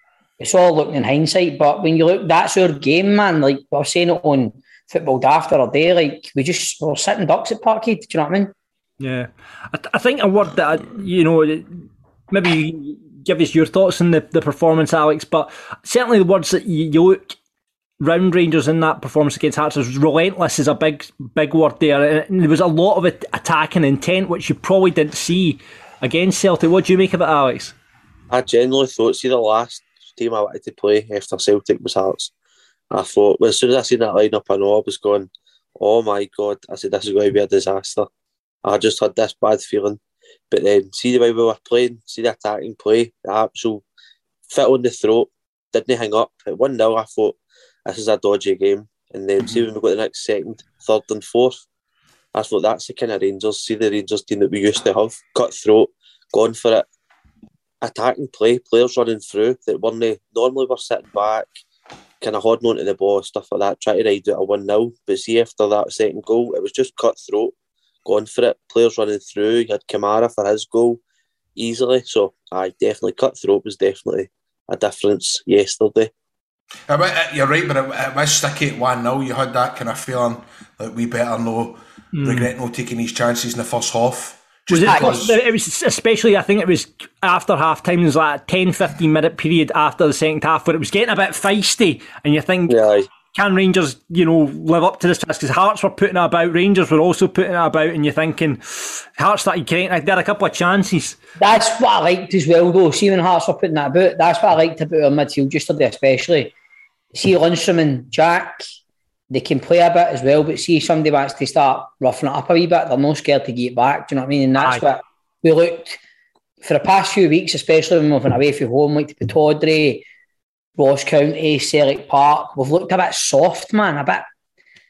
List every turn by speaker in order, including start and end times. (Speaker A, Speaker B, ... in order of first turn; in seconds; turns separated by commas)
Speaker A: 0.4-8.5, Speaker B: 9.0-17.4, Speaker B: 18.0-27.8, Speaker C: 28.3-32.3, Speaker C: 32.9-38.1, Speaker C: 38.6-43.9, Speaker C: 44.5-51.6, Speaker C: 52.3-56.9, Speaker C: 57.8-61.5, Speaker C: 62.2-67.5, Speaker C: 68.0-71.0, Speaker C: 71.6-76.1, Speaker D: 76.9-85.4, Speaker B: 82.2-82.5, Speaker B: 84.7-92.8, Speaker A: 84.8-85.2, Speaker C: 92.7-93.1, Speaker B: 93.3-101.2, Speaker A: 101.4-106.5, Speaker A: 107.1-108.6, Speaker A: 109.3-116.0, Speaker A: 116.6-120.1, Speaker A: 120.8-124.3